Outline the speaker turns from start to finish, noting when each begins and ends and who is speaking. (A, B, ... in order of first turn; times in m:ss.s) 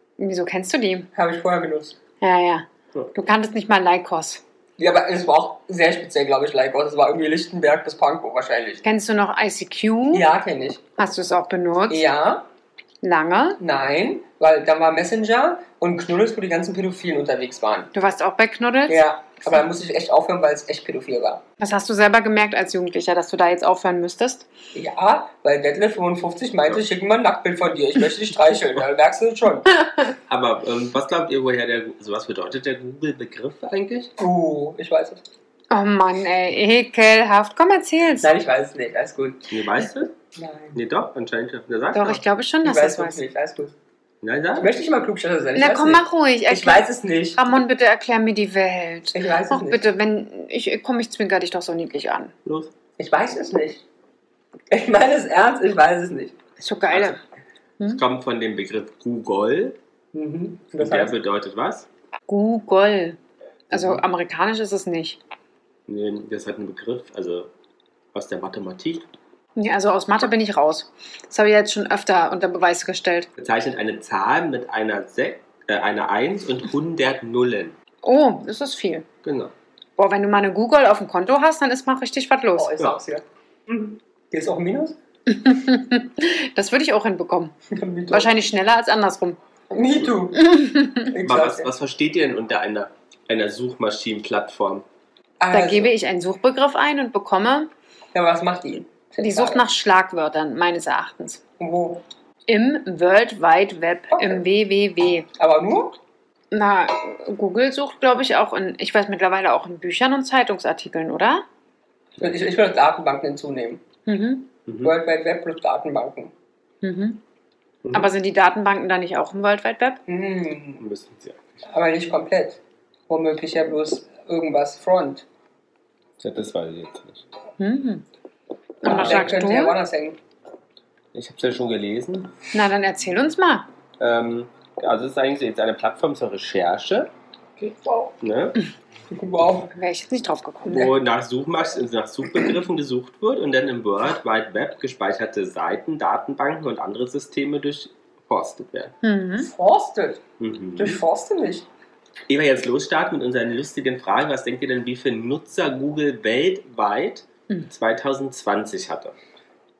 0:00.2-0:01.1 A
0:01.1-0:02.0 B
0:02.2-0:04.4 A
0:04.8-0:08.8 B
0:08.8-0:10.2 A
0:10.1-0:10.8 B
0:11.0-0:12.0 A
0:11.9-0:12.5 B
0:13.0-0:13.6 A
0:13.6-0:17.9 B
0:17.9-0:19.0 A
0:18.9-0:21.4 B
0:21.6-0:24.5 A
0:24.7-0:29.7 B
0:30.3-0:34.1 C
0:34.2-0:35.2 B
0:35.7-0:38.3 A
0:38.2-0:39.6 B
0:39.5-0:40.1 C
0:40.3-0:40.8 B
0:40.7-0:42.2 C
0:41.9-0:43.2 A
0:42.6-0:43.7 B
0:44.2-0:44.7 C
0:44.5-0:47.4 B
0:45.5-0:52.3 A
0:49.1-0:49.9 B
0:52.4-0:52.7 C
0:53.0-0:53.8 B
0:54.7-0:56.4 B
0:56.6-0:57.2 A
0:57.8-0:59.8 C
1:00.1-1:01.1 B
1:00.8-1:01.9 C
1:02.3-1:03.2 A
1:03.7-1:05.2 A
1:03.7-1:04.0 C
1:05.9-1:07.5 C
1:08.1-1:09.1 C
1:09.6-1:13.3 A
1:13.4-1:17.8 C
1:18.0-1:19.0 A
1:19.2-1:19.5 C
1:20.0-1:22.8 A
1:22.6-1:25.0 B
1:25.3-1:27.5 A
1:27.7-1:28.4 B
1:28.1-1:29.4 A
1:29.7-1:30.4 B
1:30.3-1:31.1 A
1:31.1-1:31.7 B
1:31.2-1:34.8 C
1:35.4-1:35.9 B
1:35.5-1:37.7 A
1:38.1-1:39.6 B
1:39.2-1:41.4 A
1:41.6-1:42.0 B
1:42.5-1:45.3 A
1:44.1-1:44.4 B
1:45.4-1:46.0 B
1:46.5-1:51.4 A
1:52.2-1:53.8 B
1:54.0-1:54.5 A
1:54.7-1:54.9 C
1:54.8-1:56.3 B
1:56.8-1:57.2 A
1:57.8-1:58.1 C
1:57.9-2:00.0 A
2:00.1-2:00.8 B
2:00.8-2:01.4 C
2:01.6-2:05.2 B
2:06.2-2:07.2 C
2:07.6-2:08.0 A
2:08.8-2:09.8 A
2:08.8-2:10.2 B
2:08.8-2:09.3 C
2:11.1-2:12.3 C
2:12.5-2:13.7 A
2:14.0-2:17.1 C
2:17.6-2:18.1 B
2:18.1-2:18.6 C
2:19.1-2:19.7 B
2:19.7-2:20.9 A
2:20.7-2:28.9 C
2:29.0-2:29.5 A
2:29.4-2:30.2 B
2:30.4-2:31.0 C
2:30.8-2:31.7 B
2:32.3-2:39.2 C